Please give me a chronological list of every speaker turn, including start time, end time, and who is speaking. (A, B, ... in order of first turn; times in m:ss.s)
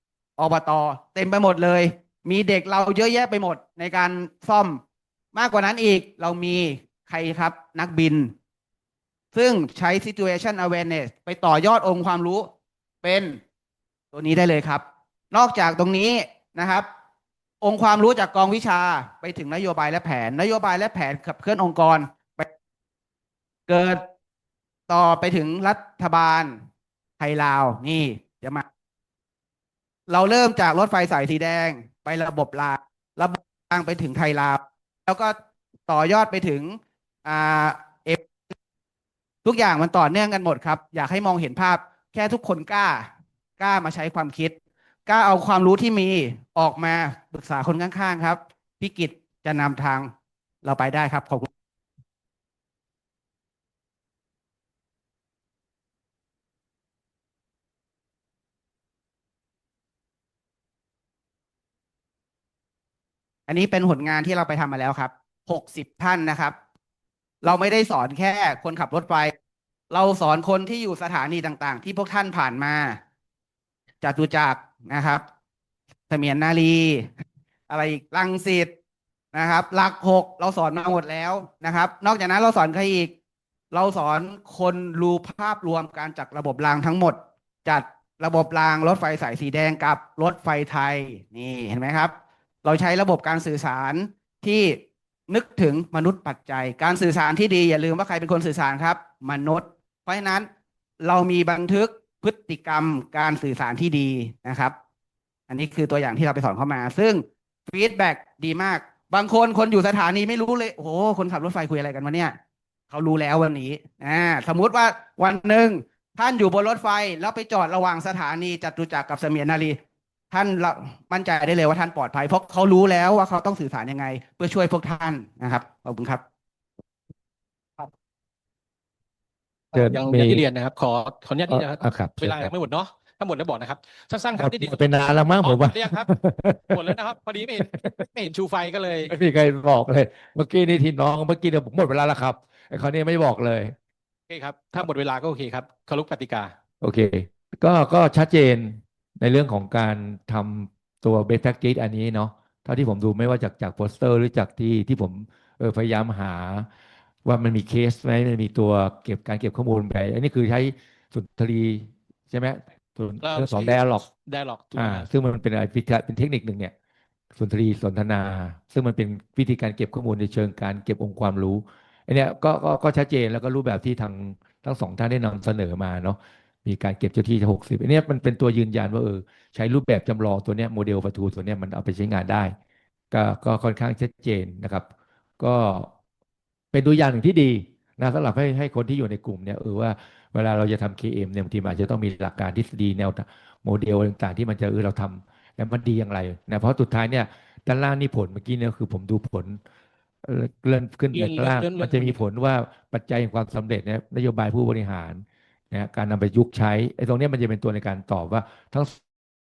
0:00.4-0:04.8 A
0:05.3-0:08.3 A
0:09.3-0:12.5 A
0:13.0-0:13.4 A
0:14.1-0:16.9 A
0:17.6-0:22.5 A
0:23.7-0:24.0 A
0:24.9-0:26.6 A
0:27.2-0:28.6 A
0:30.1-0:35.4 A
0:35.9-0:38.3 A
0:39.4-0:43.1 A
0:43.6-0:44.6 A
0:45.1-0:50.1 A
0:50.6-0:51.5 A
1:03.5-1:06.6 A
1:07.4-1:09.3 A
1:09.9-1:13.0 A
1:14.0-1:15.2 A
1:16.1-1:17.1 A
1:17.7-1:18.7 A
1:19.3-1:23.1 A
1:23.7-1:32.1 A
1:32.6-1:40.5 A
1:41.0-1:44.7 A
1:45.5-1:52.3 A
1:52.9-1:59.8 A
2:00.3-2:06.2 A
2:09.7-2:10.4 B
2:09.8-2:14.8 C
2:11.5-2:12.5 B
2:14.4-2:16.9 B
2:15.4-2:16.1 C
2:16.7-2:19.1 C
2:17.6-2:18.0 B
2:19.1-2:23.8 B
2:24.3-2:26.5 C
2:26.8-2:36.7 B
2:37.2-2:44.0 B
2:43.2-2:45.1 C
2:44.8-2:46.7 B
2:47.4-3:02.6 B
3:03.1-3:04.9 B
3:05.4-3:05.9 B
3:06.7-3:19.6 B
3:20.2-3:29.0 B
3:21.1-3:22.2 C